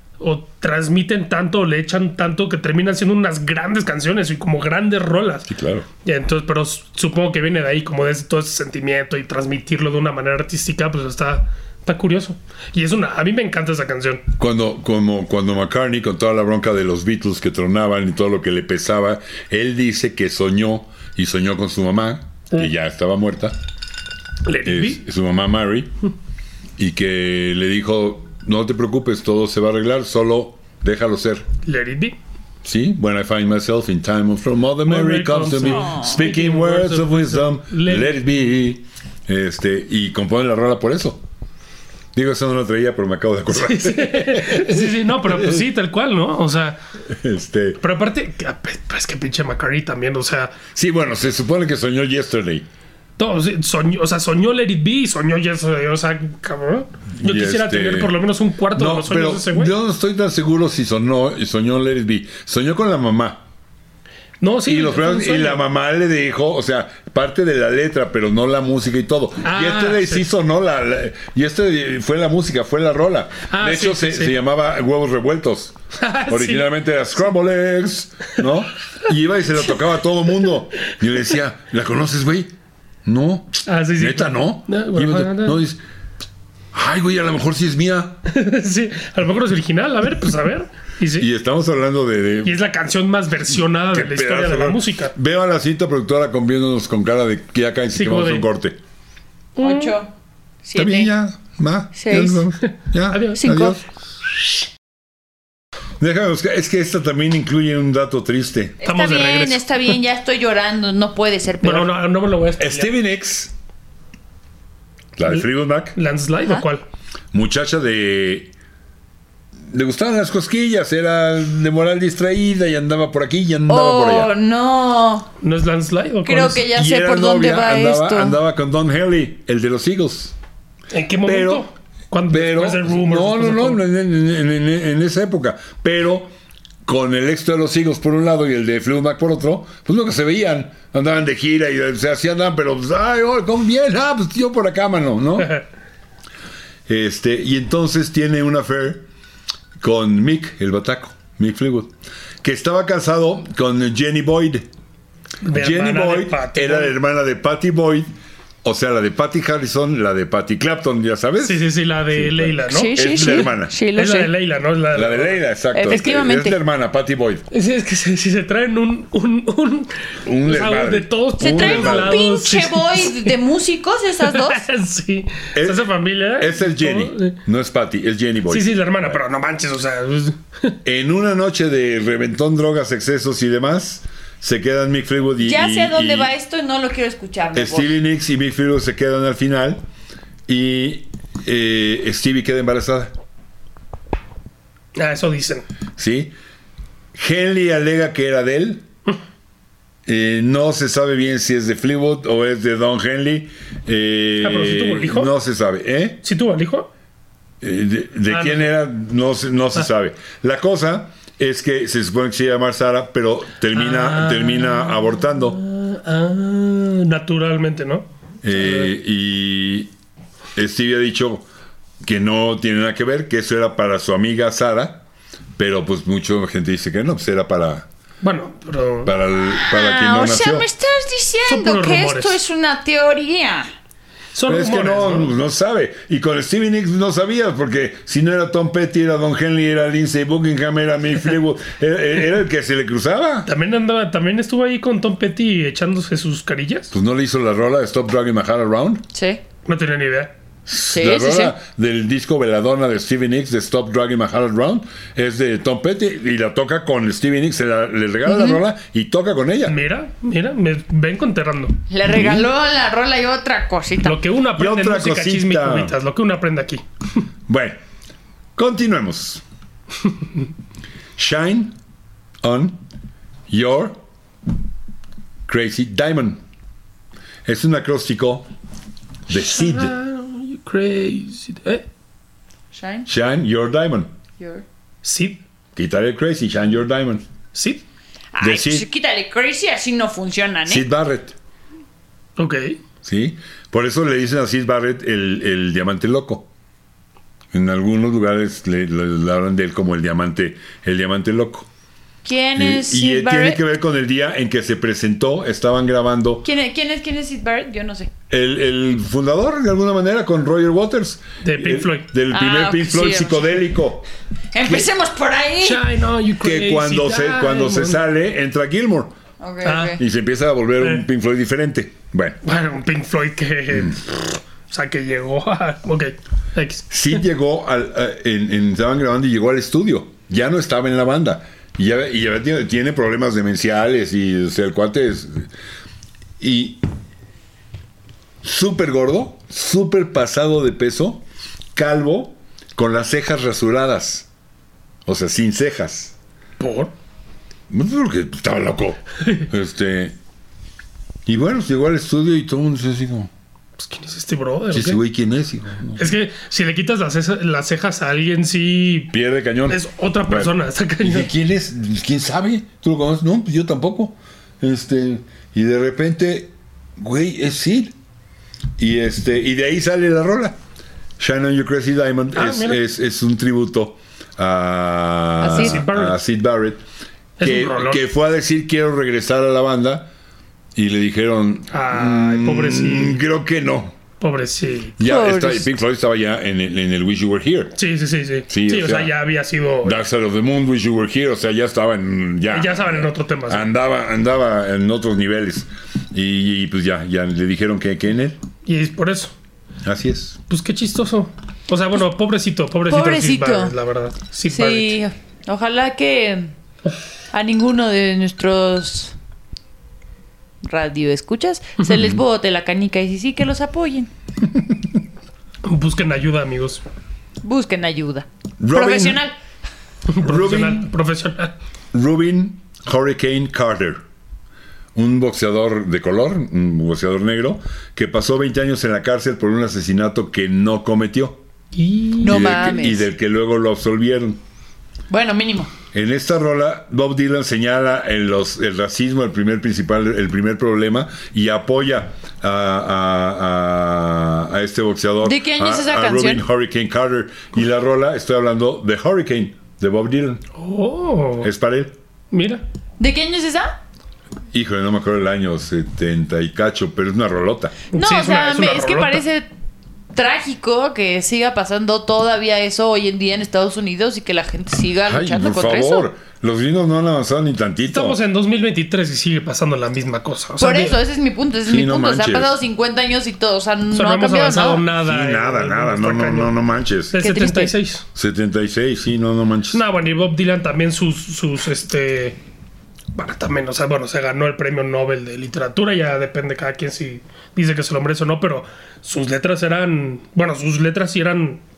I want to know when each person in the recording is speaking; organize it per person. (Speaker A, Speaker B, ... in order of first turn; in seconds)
Speaker A: 0.2-5.5, 6.0-14.2, 24.4-25.0, 31.6-32.2, 34.8-38.2, 43.5-46.8, 47.8-50.5, 53.2-59.7, 64.4-65.6, 69.4-70.2, 73.5-74.4, 75.9-76.7, 83.7-85.6, 88.3-91.3, 92.4-95.1, 97.9-98.5, 99.6-100.0, 103.1-103.5, 108.8-109.8, 111.6-112.9, 115.9-116.8, 125.4-126.7, 130.9-133.8, 155.4-156.9, 161.4-166.1, 167.5-173.3, 174.2-177.4, 178.5-180.8, 194.9-195.7, 204.4-205.3, 206.2-206.9, 208.3-208.6, 213.7-218.9, 228.2-229.1, 231.4-232.4, 234.3-235.3, 243.4-246.9, 249.6-250.3, 259.6-261.7, 264.0-266.8, 279.4-281.8, 285.0-285.4, 287.5-287.8, 292.4-292.8, 311.4-312.1, 315.6-318.0, 319.6-320.0, 322.4-327.2, 346.6-346.9, 353.8-355.0, 356.0-359.1, 359.7-361.3, 372.3-372.8, 375.5-376.2, 377.4-378.0, 381.7-383.2, 384.2-384.9, 387.8-390.1, 392.5-393.7, 398.6-399.3, 400.5-405.0, 415.6-416.8, 420.1-421.5, 431.7-432.7, 450.6-451.5, 452.3-452.6, 457.9-459.2, 467.9-471.0, 473.9-476.6, 477.1-478.0, 479.7-482.4, 483.1-491.6
Speaker B: 5.5-5.8, 14.4-23.6, 24.6-25.9, 26.8-31.4, 32.6-41.2, 42.1-45.6, 47.1-47.8, 50.7-52.6, 57.1-58.1, 58.7-63.4, 64.7-75.8, 76.3-82.5, 83.0-85.8, 86.7-88.2, 91.2-92.5, 93.9-98.8, 100.7-103.8, 106.0-108.8, 112.6-113.5, 115.2-116.0, 117.3-118.5, 119.7-124.3, 126.7-130.3, 131.2-131.7, 132.3-136.3, 136.8-145.6, 146.9-149.1, 149.8-154.7, 155.5-158.1, 158.6-163.7, 164.9-167.4, 170.2-172.2, 175.5-179.2, 180.8-186.3, 187.5-189.8, 190.5-193.1, 196.0-196.3, 197.1-198.9, 200.1-206.2, 207.6-215.6, 218.4-219.9, 220.6-221.5, 222.0-225.0, 225.6-227.9, 229.0-230.7, 234.4-243.5, 246.9-249.0, 250.7-259.8, 262.1-262.4, 264.6-265.9, 267.5-267.8, 268.6-269.4, 271.2-271.8, 272.4-272.8, 273.5-274.0, 275.5-276.4, 277.4-278.5, 279.3-279.9, 283.1-284.1, 285.8-287.2, 288.4-288.9, 290.7-291.3, 293.0-296.4, 297.5-301.7, 302.6-306.4, 308.3-314.1, 316.4-319.1, 320.0-322.4, 326.9-335.5, 336.4-336.8, 338.4-341.2, 341.7-344.3, 345.1-346.1, 347.7-350.1, 351.2-353.3, 354.7-356.1, 359.1-367.9, 368.8-370.6, 371.2-376.8, 377.4-380.1, 380.8-383.9, 385.0-387.7, 388.5-389.1, 389.8-398.4, 399.8-400.4, 418.6-419.2, 420.2-420.9, 421.9-424.0, 424.9-431.4, 432.2-434.4, 435.9-450.4, 451.4-451.9, 454.5-457.8, 465.1-468.2, 471.7-472.5, 475.0-477.2, 478.1-479.8
Speaker C: 35.7-36.2, 99.6-100.1, 100.6-101.1, 101.9-102.5, 103.3-103.8, 108.8-111.9, 123.7-125.3, 126.2-128.4, 162.7-164.3, 165.7-166.6, 171.4-174.7, 185.4-188.0, 229.5-233.7, 249.1-249.4, 250.8-251.5, 258.2-258.6, 261.9-264.2, 282.7-283.1, 284.4-284.6, 288.3-290.9, 302.2-303.6, 306.4-308.1, 312.3-313.6, 314.5-315.8, 319.4-320.0, 375.4-375.8, 385.0-385.6, 402.9-403.7, 404.5-406.5, 407.3-409.1, 410.6-414.1, 417.4-419.4, 432.2-433.1, 435.1-435.7, 445.2-446.4, 453.0-453.8, 457.9-459.4, 460.1-466.1, 470.6-474.9, 477.2-477.8